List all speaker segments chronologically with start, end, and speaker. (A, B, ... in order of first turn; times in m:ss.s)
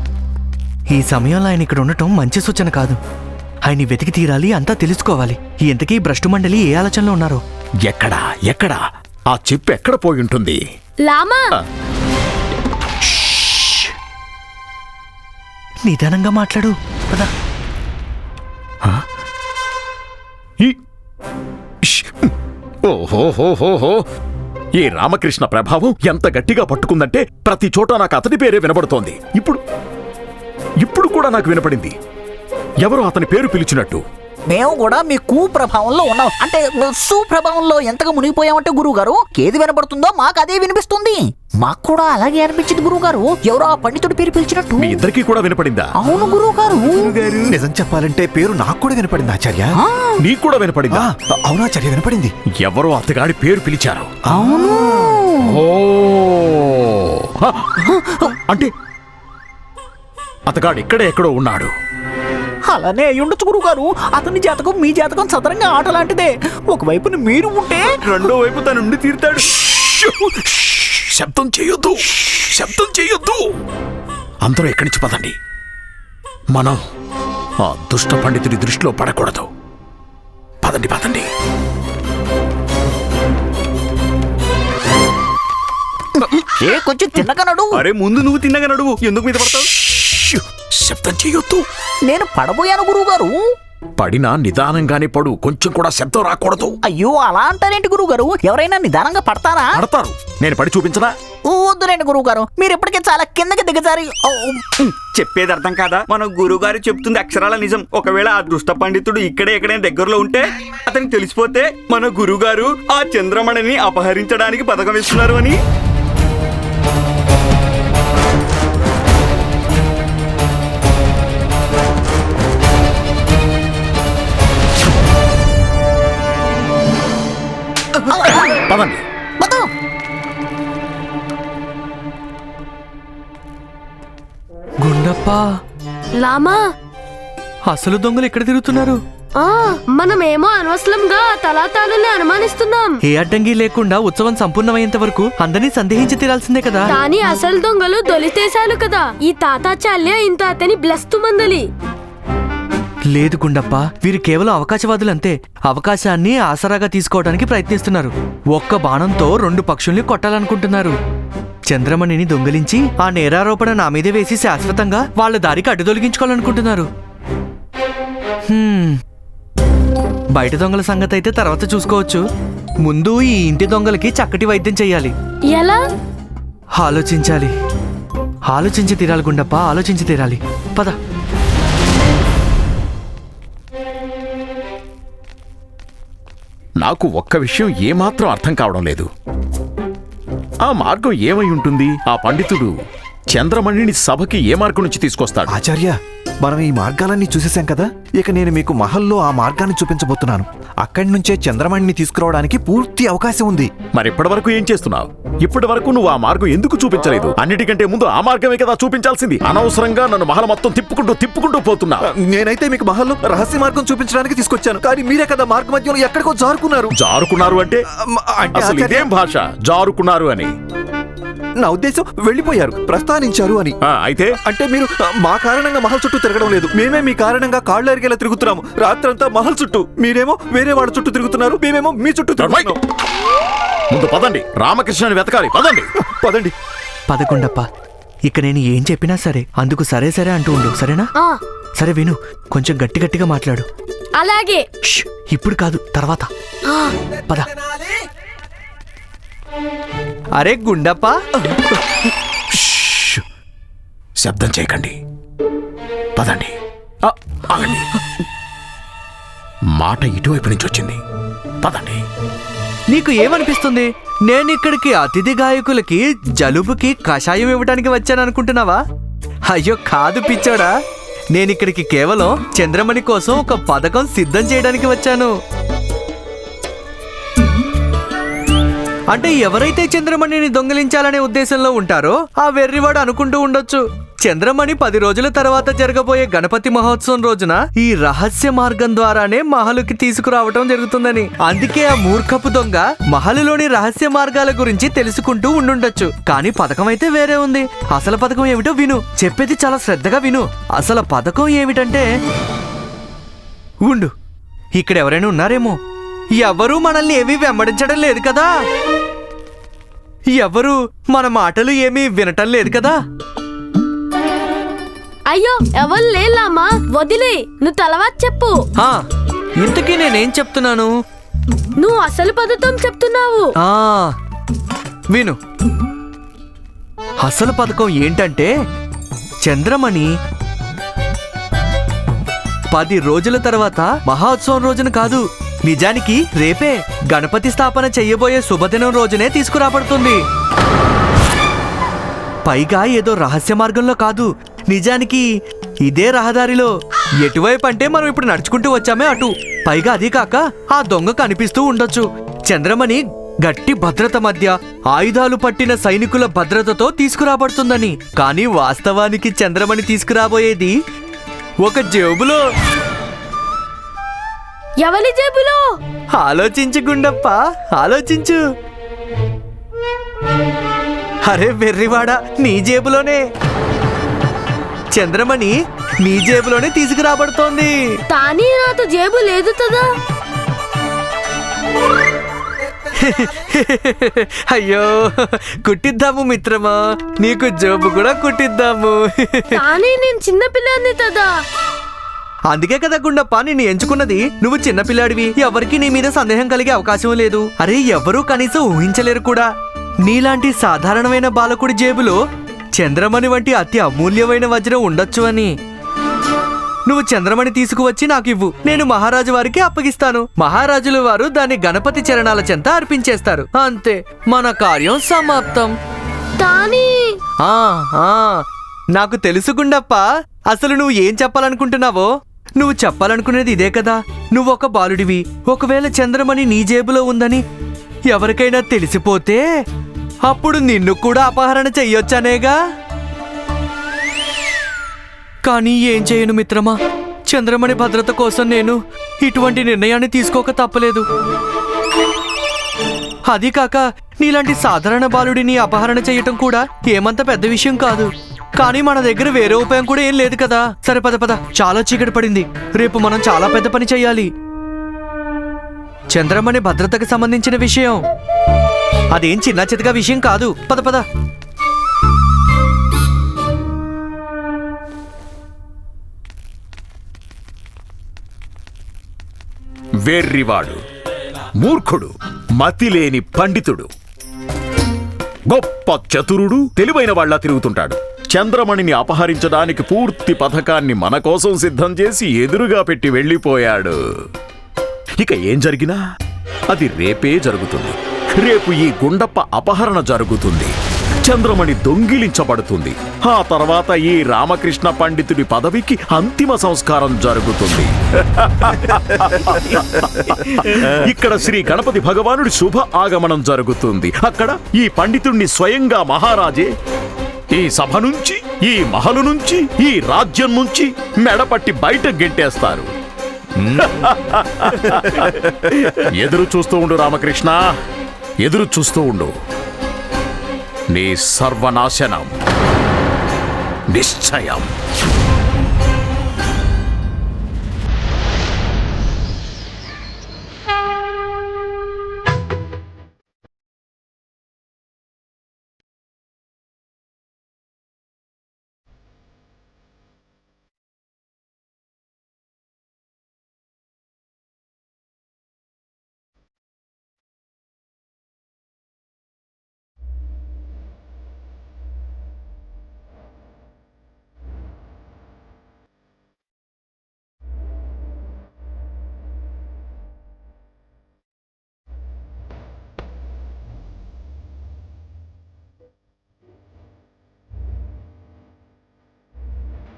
0:00.9-0:03.0 A
0:03.6-0:07.4 A
0:07.8-0:08.8 B
0:09.3-0:10.6 B
0:11.0-0:11.4 C
0:15.8-0:17.3 A
0:21.8-0:22.3 B
0:22.8-0:24.0 B
0:24.8-0:29.6 B
0:30.8-0:32.0 B
0:32.8-0:34.0 B
0:34.5-0:45.0 D
0:44.8-0:45.9 B
0:46.0-0:47.5 D
0:47.4-0:49.8 E
0:49.8-0:50.2 D
0:50.2-0:51.1 B
0:50.9-0:52.3 E
0:52.6-0:54.1 B
0:54.3-0:55.1 E
0:54.3-0:55.6 D
0:55.4-0:57.8 B
0:57.8-0:58.4 D
1:00.5-1:01.7 B
1:02.7-1:07.9 D
1:08.0-1:09.4 F
1:09.4-1:13.4 B
1:14.4-1:15.3 B
1:16.5-1:16.8 B
1:17.6-1:19.5 B
1:20.6-1:21.3 B
1:26.2-1:27.8 D
1:27.7-1:29.7 F
1:29.7-1:31.6 B
1:32.1-1:33.3 D
1:34.0-1:36.8 B
1:36.8-1:39.8 D
1:39.7-1:41.1 B
1:41.5-1:44.6 D
1:44.8-1:55.6 F
2:08.1-2:08.6 D
2:08.2-2:09.0 B
2:09.4-2:09.7 D
2:14.8-2:15.5 A
2:16.2-2:16.6 C
2:17.7-2:19.0 A
2:19.4-2:22.9 C
2:23.0-2:26.9 A
2:26.9-2:31.6 C
2:33.1-2:41.0 A
2:41.7-2:46.9 A
2:48.5-2:49.0 A
2:50.3-2:52.2 A
2:52.8-2:55.1 A
2:55.5-2:55.8 C
2:56.8-2:57.5 A
2:58.5-3:01.0 A
3:06.8-3:09.1 B
3:10.6-3:12.7 B
3:13.3-3:15.5 B
3:15.5-3:23.7 E
3:23.9-3:32.0 B
3:32.2-3:36.9 E
3:37.0-3:37.8 B
3:38.0-3:39.1 E
3:38.6-3:40.5 B
3:41.6-3:43.8 E
3:43.8-3:44.3 B
3:44.5-3:52.8 E
3:52.4-3:52.8 B
3:53.9-3:55.9 B
3:56.0-3:56.5 E
3:57.1-3:57.6 A
3:58.3-4:01.1 A
4:01.8-4:03.7 A
4:04.2-4:04.6 C
4:04.9-4:06.3 A
4:10.4-4:11.2 A
4:12.6-4:13.2 B
4:14.2-4:14.9 B
4:16.2-4:16.5 B
4:17.0-4:17.8 B
4:19.8-4:21.0 B
4:21.6-4:22.0 B
4:22.9-4:28.8 A
4:29.5-4:30.7 A
4:31.3-4:35.3 A
4:39.1-5:02.1 A
5:03.8-5:04.1 A
5:04.8-5:05.8 A
5:06.4-5:08.5 A
5:10.4-5:13.0 A
5:15.3-5:18.6 C
5:19.6-5:20.9 A
5:21.8-5:23.5 C
5:23.6-5:24.1 A
5:25.1-5:25.4 A
5:27.2-5:28.5 A
5:29.4-5:30.1 A
5:32.7-5:40.2 A
5:42.5-5:45.3 A
5:45.8-6:00.8 A
6:01.6-6:02.4 A
6:04.8-6:05.6 C
6:06.2-6:08.4 A
6:11.2-6:13.2 A
6:14.9-6:17.8 A
6:18.1-6:19.8 C
6:22.9-6:29.6 A
6:29.6-6:31.3 C
6:32.5-6:39.5 A
6:40.0-6:42.2 A
6:42.8-6:45.5 A
6:46.9-6:55.7 A
6:56.4-6:56.9 C
6:57.4-6:58.4 A
6:58.9-7:07.4 A
7:08.1-7:09.4 A
7:10.2-7:12.6 A
7:15.4-7:21.0 A
7:23.3-7:34.3 A
7:36.1-7:38.0 A
7:39.1-7:41.0 A
7:50.1-7:50.8 B
7:51.6-7:53.9 B
7:55.5-8:04.0 B
8:05.2-8:06.0 B
8:06.7-8:10.7 B
8:11.2-8:26.7 B
8:27.5-8:32.9 B
8:33.8-8:35.3 B
8:36.1-8:37.6 B
8:38.4-8:39.3 B
8:40.9-8:42.3 B
8:43.9-8:44.7 B